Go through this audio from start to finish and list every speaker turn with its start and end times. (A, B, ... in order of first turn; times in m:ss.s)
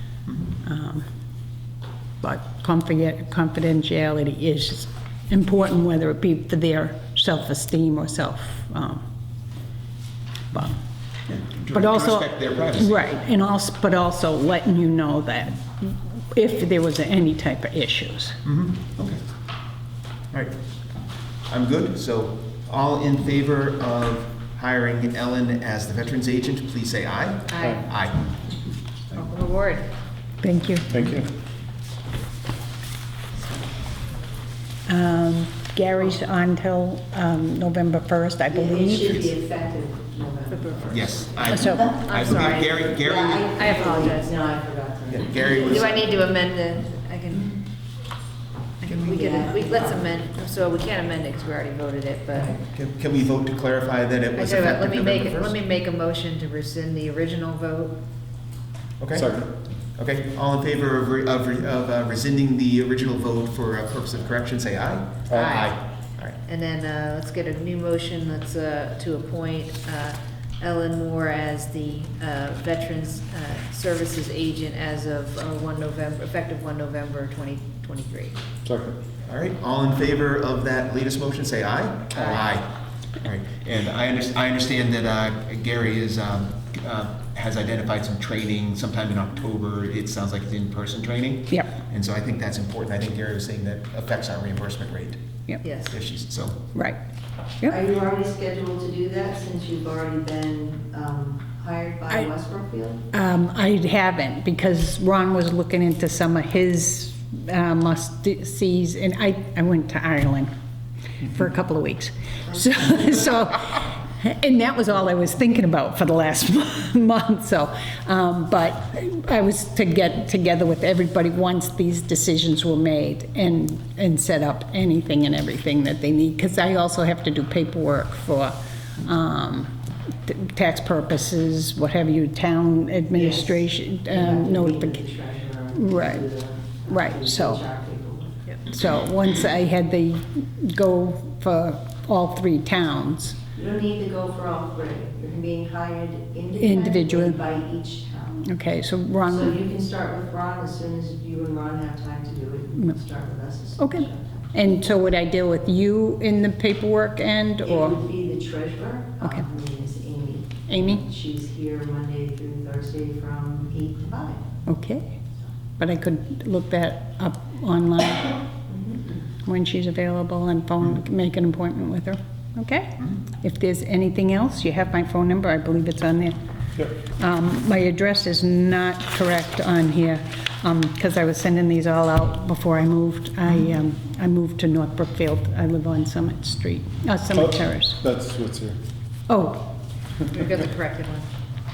0:00.6-0:01.1 A
0:02.2-0:09.0 A
0:10.5-0:10.8 A
0:11.3-0:13.0 B
0:11.7-0:18.4 A
0:18.4-0:19.2 B
0:21.5-0:28.3 B
0:27.5-0:27.8 C
0:29.1-0:29.8 C
0:30.4-0:31.0 A
0:30.9-0:31.3 D
0:34.9-0:39.3 A
0:38.5-0:40.9 E
0:40.5-0:41.0 C
0:40.9-0:43.5 B
0:41.5-0:41.9 A
0:41.5-0:44.5 C
0:43.0-0:45.9 E
0:45.1-0:46.0 B
0:45.5-0:47.6 C
0:48.8-0:52.6 C
0:48.8-0:49.2 B
0:49.2-0:50.0 E
0:52.5-0:55.6 B
0:54.3-0:58.0 C
0:59.0-1:06.4 B
0:59.1-0:59.5 D
1:05.3-1:05.7 C
1:06.4-1:18.4 C
1:18.6-1:19.0 D
1:19.2-1:22.7 B
1:22.1-1:22.5 C
1:23.2-1:35.2 B
1:35.6-1:36.0 C
1:35.9-1:36.6 B
1:36.7-1:37.0 A
1:37.7-1:43.0 E
1:43.1-1:50.5 A
1:51.2-2:09.7 A
2:10.2-2:15.1 A
2:13.2-2:13.5 E
2:14.1-2:18.4 E
2:15.7-2:16.3 A
2:16.8-2:17.7 A
2:18.7-2:23.4 A
2:23.6-2:28.3 E
2:26.6-2:27.4 A
2:28.4-2:29.6 A
2:29.3-2:34.5 E
2:33.8-2:38.0 A
2:37.6-2:44.4 E
2:39.2-2:39.5 A
2:40.7-2:41.0 A
2:44.6-2:45.2 A
2:45.8-2:48.4 A
2:49.4-2:56.4 A
2:56.9-3:08.0 A
3:07.3-3:08.8 D
3:09.3-3:09.7 A
3:10.3-3:11.2 C